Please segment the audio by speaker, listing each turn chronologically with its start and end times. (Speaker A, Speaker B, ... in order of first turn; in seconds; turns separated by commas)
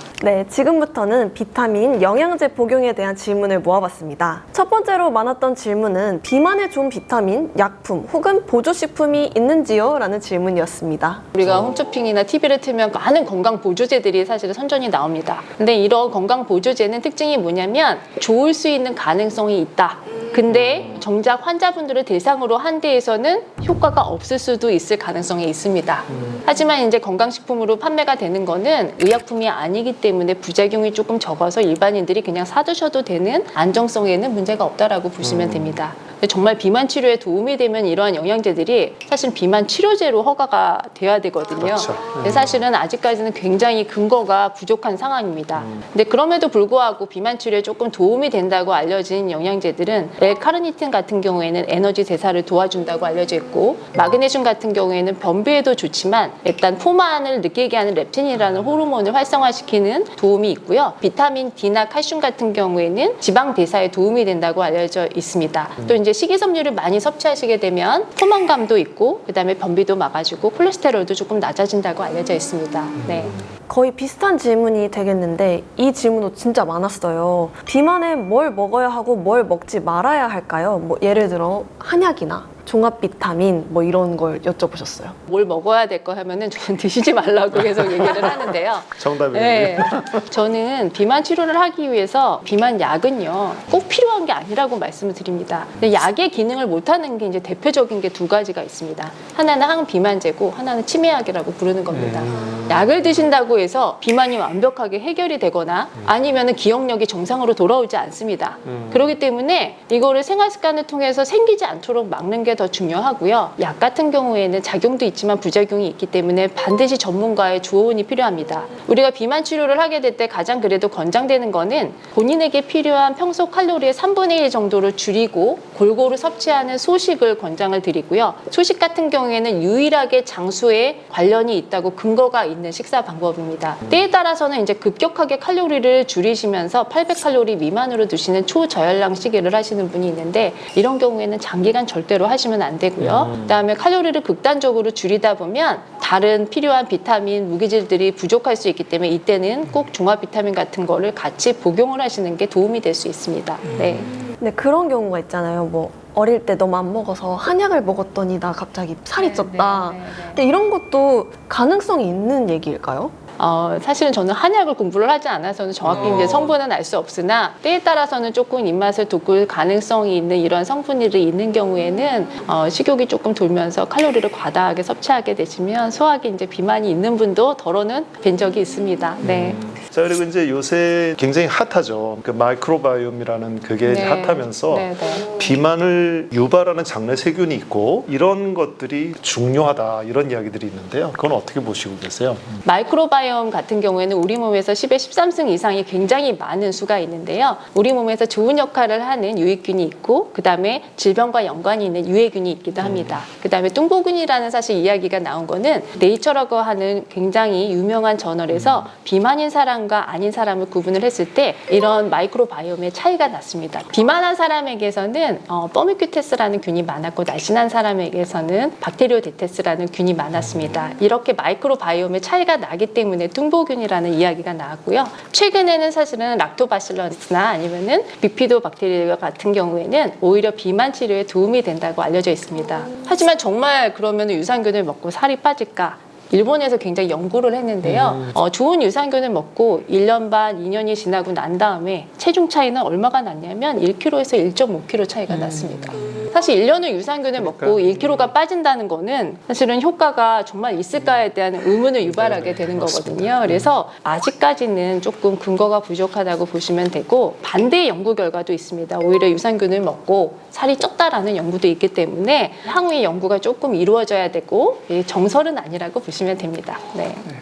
Speaker A: 0.2-11.3, Speaker B: 11.3-73.3, Speaker C: 35.2-35.7, Speaker C: 41.6-42.5, Speaker A: 73.7-85.2, Speaker B: 85.3-154.2, Speaker C: 89.0-90.3, Speaker C: 101.9-102.9, Speaker C: 108.7-109.1, Speaker C: 143.0-143.6, Speaker C: 153.8-154.2, Speaker A: 154.4-163.1, Speaker B: 159.2-160.4, Speaker B: 163.4-179.6, Speaker C: 165.9-166.5, Speaker C: 179.2-192.6, Speaker B: 183.8-185.3, Speaker B: 192.6-267.2, Speaker C: 202.8-203.2, Speaker C: 208.5-208.8, Speaker C: 237.8-238.3, Speaker C: 245.3-246.3, Speaker C: 247.4-248.3, Speaker C: 252.1-253.7